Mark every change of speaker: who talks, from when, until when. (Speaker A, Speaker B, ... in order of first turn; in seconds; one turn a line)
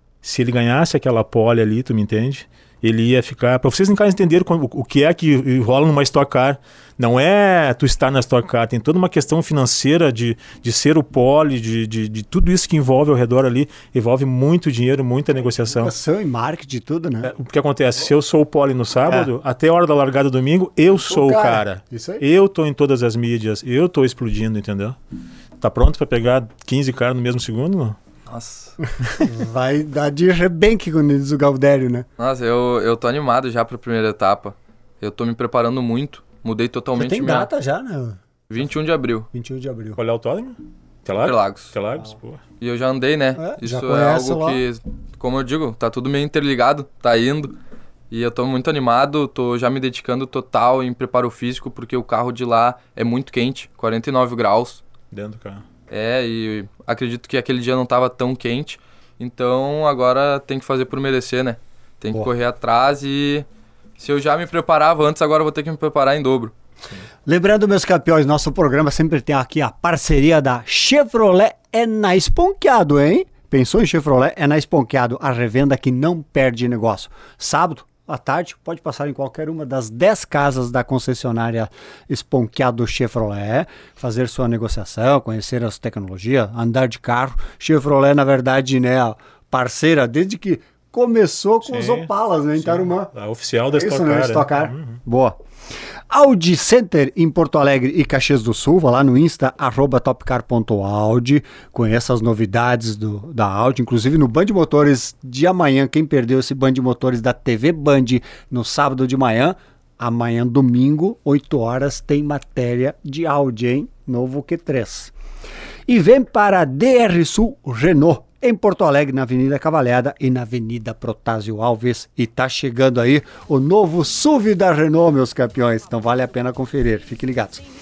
Speaker A: 0.2-15.9
Speaker B: 15.5-17.3
Speaker A: 17.2-25.0
Speaker B: 19.0-19.3
Speaker B: 20.9-22.2
Speaker A: 25.6-28.0
Speaker C: 28.3-28.7
Speaker B: 29.2-32.0
Speaker C: 32.2-37.5
Speaker B: 37.0-38.2
Speaker C: 38.5-39.3
Speaker B: 39.3-40.0
Speaker A: 40.0-42.4
Speaker C: 41.2-41.7
Speaker C: 42.6-47.5
Speaker B: 43.4-44.6
Speaker C: 48.1-54.8
Speaker A: 55.1-55.6
Speaker C: 55.9-63.5
Speaker C: 64.0-66.5
Speaker B: 67.2-93.1
Speaker A: 91.7-95.0
Speaker B: 93.7-95.4
Speaker B: 96.1-115.1
Speaker B: 115.9-127.6